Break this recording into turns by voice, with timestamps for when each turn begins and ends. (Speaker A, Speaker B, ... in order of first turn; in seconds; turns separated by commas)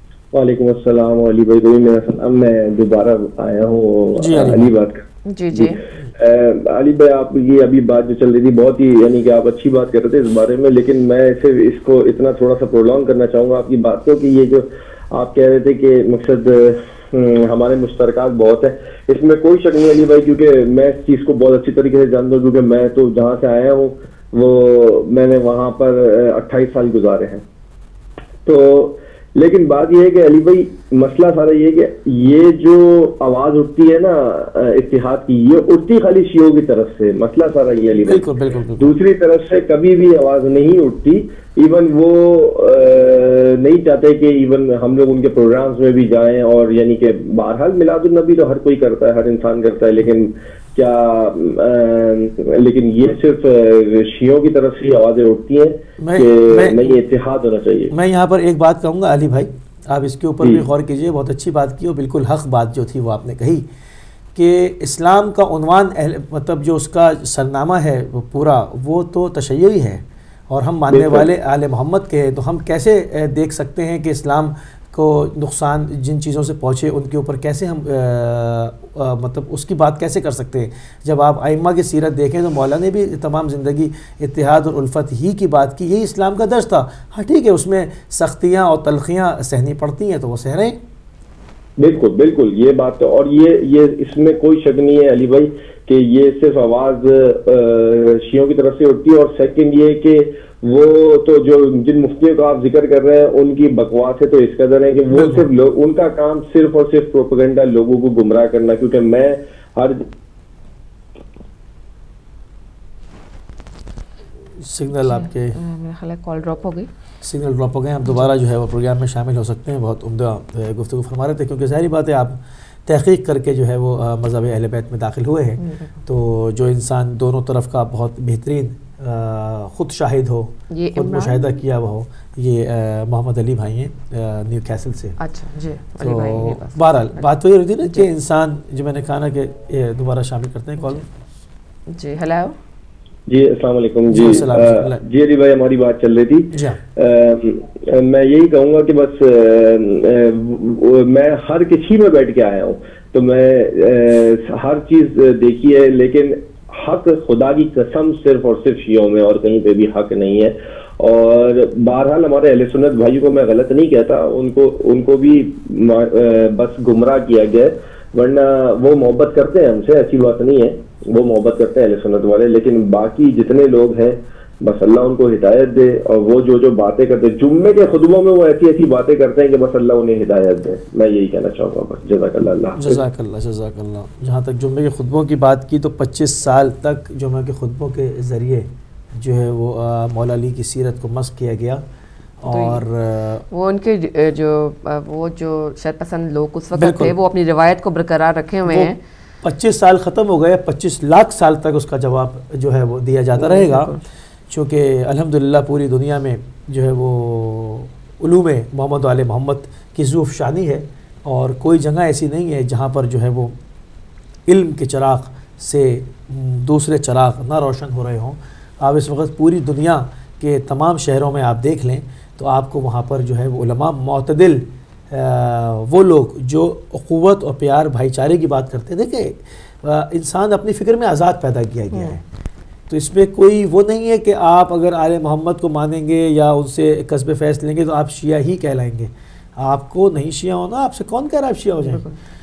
Speaker A: 0.3-27.4, Speaker B: 4.2-4.7, Speaker C: 5.3-5.8, Speaker A: 28.5-38.3, Speaker B: 38.0-39.0, Speaker A: 38.8-57.9, Speaker B: 56.0-56.9, Speaker B: 57.9-63.6, Speaker B: 64.3-90.8, Speaker A: 70.9-71.3, Speaker A: 91.8-110.1, Speaker B: 105.1-105.5, Speaker B: 114.6-115.6, Speaker C: 115.0-116.9, Speaker B: 117.2-135.2, Speaker C: 125.6-126.0, Speaker C: 130.7-131.6, Speaker C: 135.2-137.3, Speaker B: 136.0-141.1, Speaker C: 141.9-142.6, Speaker A: 143.3-183.0, Speaker B: 144.1-145.0, Speaker B: 146.5-146.8, Speaker B: 182.8-191.8, Speaker B: 192.4-193.4, Speaker C: 192.5-192.8, Speaker C: 193.5-199.0, Speaker B: 196.8-197.2, Speaker B: 198.7-203.9, Speaker C: 203.4-204.0, Speaker B: 204.5-213.6, Speaker B: 214.5-232.2, Speaker B: 232.9-242.0, Speaker C: 241.8-242.2